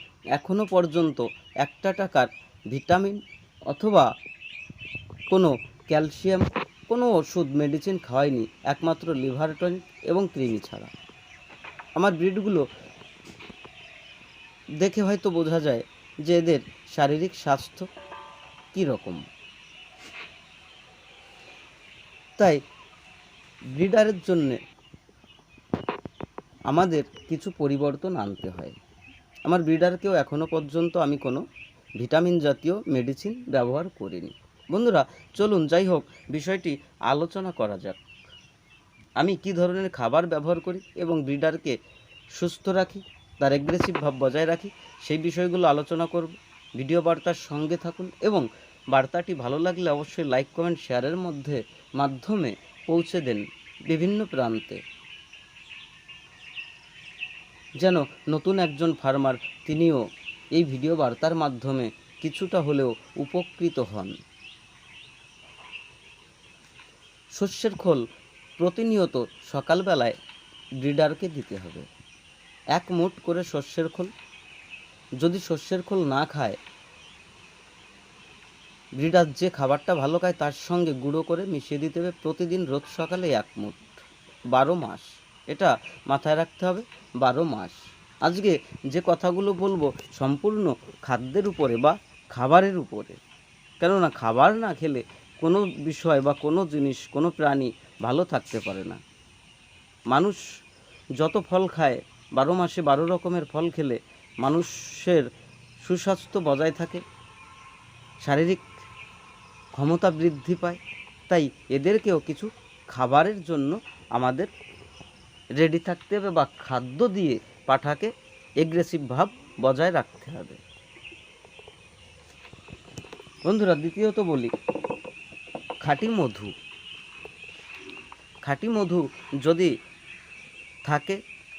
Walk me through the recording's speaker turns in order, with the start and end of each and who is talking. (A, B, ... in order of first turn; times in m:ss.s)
0:00.3-0:04.1 A
0:05.3-0:10.9 A
0:12.0-0:12.7 A
0:14.8-0:17.9 A
0:18.7-0:19.2 A
0:23.7-0:24.6 A
0:26.7-0:28.8 A
0:29.4-0:31.4 A
0:32.0-0:38.0 A
0:39.2-0:41.8 A
0:42.4-0:54.8 A
0:57.8-1:00.0 A
1:00.5-1:04.2 A
1:07.3-1:08.0 A
1:08.6-1:10.2 A
1:10.8-1:11.9 A
1:12.8-1:14.1 A
1:15.2-1:16.6 A
1:19.0-1:33.2 A
1:33.8-1:39.0 A
1:40.1-1:40.4 A
1:41.2-1:45.2 A
1:45.8-1:47.0 A
1:48.2-1:48.6 A
1:49.7-1:54.5 A
1:55.6-2:00.6 A
2:03.4-2:04.5 A
2:05.8-2:06.5 A
2:08.4-2:09.7 A
2:10.8-2:11.2 A